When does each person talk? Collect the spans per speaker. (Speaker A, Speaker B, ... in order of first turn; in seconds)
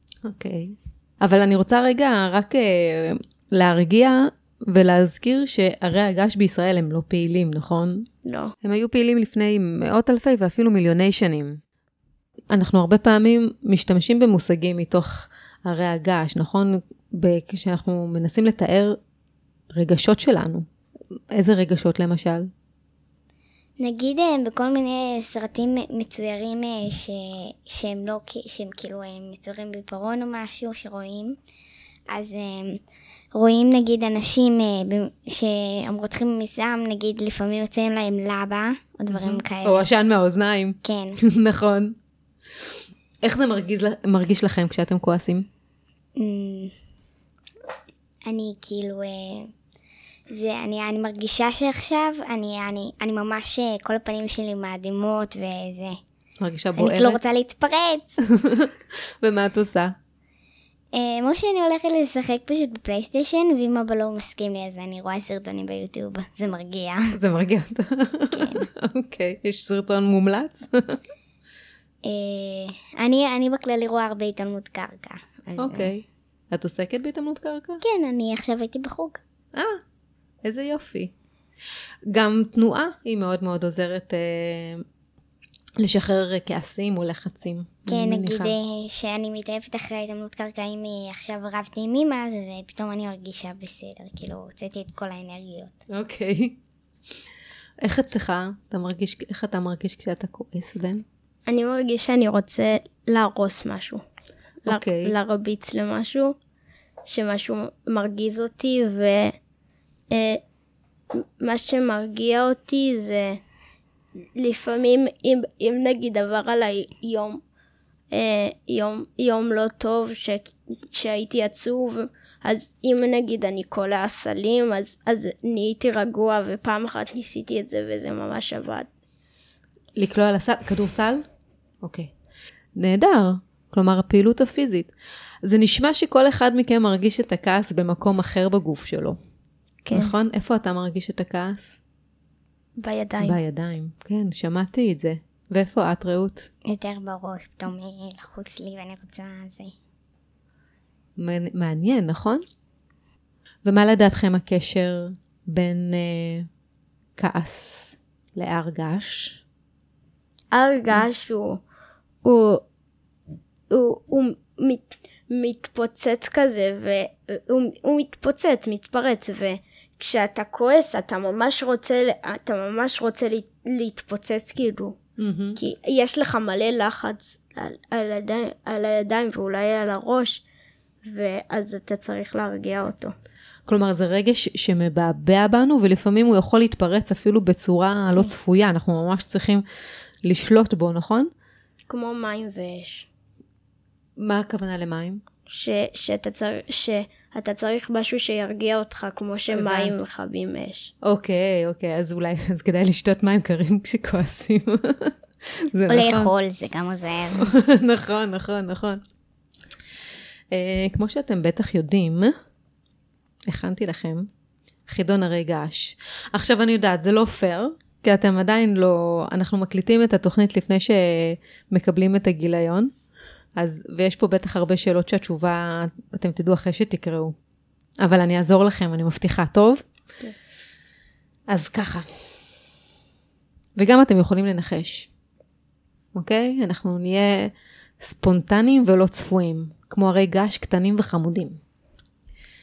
Speaker A: 0.2-8.1, 8.6-11.6, 12.5-19.0, 19.7-20.7, 21.3-22.5, 39.1-42.0, 43.2-45.5, 56.4-57.2, 58.3-58.7, 59.2-60.0, 67.2-71.0, 75.6-77.8, 79.5-79.8, 80.4-81.1, 82.1-84.8, 85.8-88.5, 95.9-96.6, 97.8-101.0, 104.7-105.1, 130.0-131.2, 131.8-132.1, 132.8-134.9, 135.4-139.2, 139.9-141.8, 143.2-146.5, 151.2-152.4, 153.6-156.5, 157.2-159.4, 175.2-175.6, 183.7-189.6, 190.2-191.3, 194.2-195.2, 199.5-200.0, 201.0-206.3, 207.4-209.0, 210.5-212.3, 213.5-214.3, 214.9-222.9, 223.6-227.3, 228.0-229.9, 231.5-232.1, 233.8-235.1, 236.2-241.6
Speaker B: 8.2-8.5, 101.5-104.0, 104.7-106.4, 107.1-109.3, 110.1-110.4, 111.2-113.4, 114.4-117.4, 118.1-128.9, 139.8-140.1, 142.8-143.4, 160.5-161.6, 162.2-162.6, 163.7-175.0, 175.6-180.4, 181.0-183.1, 191.9-193.1, 195.5-200.9
Speaker C: 23.8-31.4, 32.1-32.8, 33.4-39.9, 40.8-41.2, 46.2-46.7, 48.2-49.5, 50.3-56.0, 56.8-58.2, 60.9-67.1, 68.3-68.7, 72.0-75.9, 77.8-79.2, 87.9-95.8, 146.7-149.8, 205.9-207.5